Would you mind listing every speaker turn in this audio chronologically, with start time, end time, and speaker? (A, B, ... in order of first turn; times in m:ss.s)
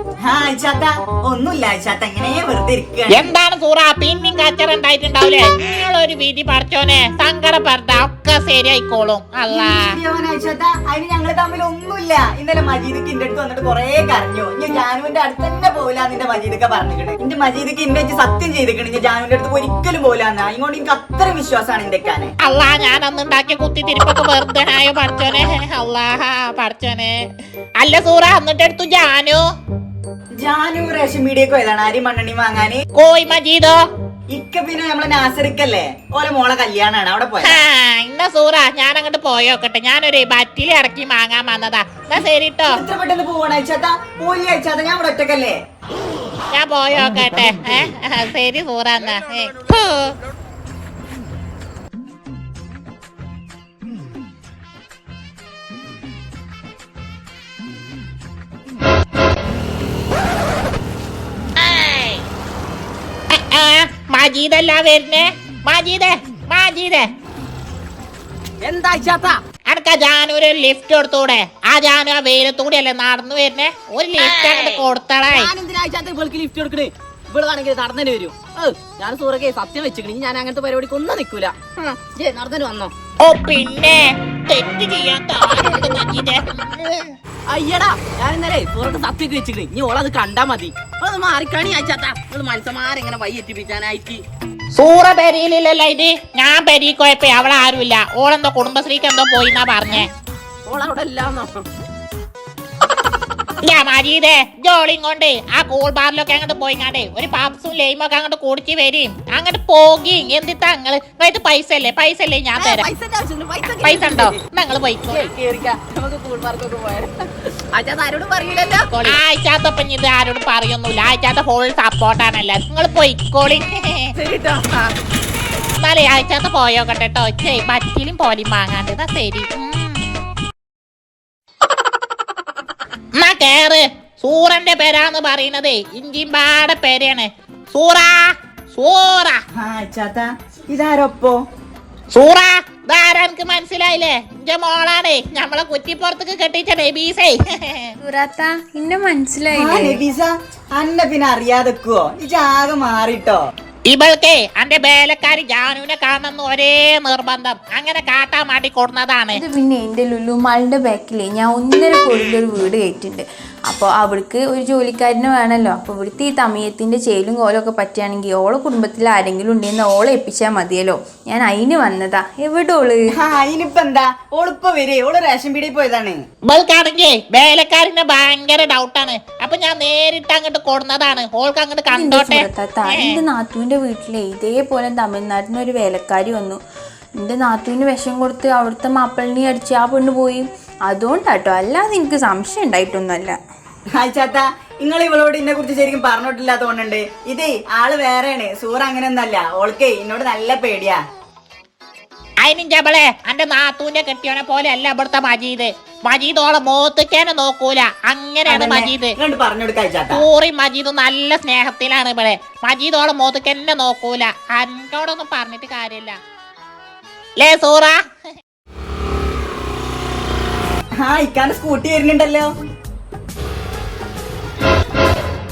0:00.2-0:03.3 A
0:03.1-0:09.9 B
0:09.5-0:22.3 A
0:22.4-0:27.1 B
0:27.8-0:29.4 B
0:30.4-0:32.8 A
0:33.0-0:33.8 B
0:34.3-0:37.6 A
0:37.4-0:42.8 B
0:42.7-0:45.6 A
0:46.5-0:50.1 B
1:03.3-1:07.1 B
1:08.6-1:09.4 C
1:09.7-1:15.5 B
1:15.3-1:22.9 C
1:23.2-1:27.1 B
1:27.5-1:34.2 C
1:34.7-1:40.1 B
1:40.7-1:41.6 C
1:43.6-1:52.9 B
1:52.6-1:54.4 C
1:53.8-1:55.3 B
1:55.1-1:57.1 C
1:57.7-1:59.2 C
1:58.9-2:04.1 B
2:04.2-2:04.9 C
2:05.8-2:10.0 B
2:13.2-2:19.4 B
2:19.6-2:21.4 A
2:22.1-2:27.9 B
2:28.0-2:30.0 D
2:29.5-2:33.4 A
2:33.9-2:39.4 B
2:39.3-2:53.1 D
2:53.2-2:56.2 A
2:56.5-3:03.2 B
3:01.9-3:06.6 D
3:07.2-3:13.4 D
3:14.0-3:21.0 A
3:22.4-3:29.2 B
3:28.5-3:30.2 A
3:30.1-3:36.2 B
3:37.4-3:38.0 B
3:41.0-3:42.5 A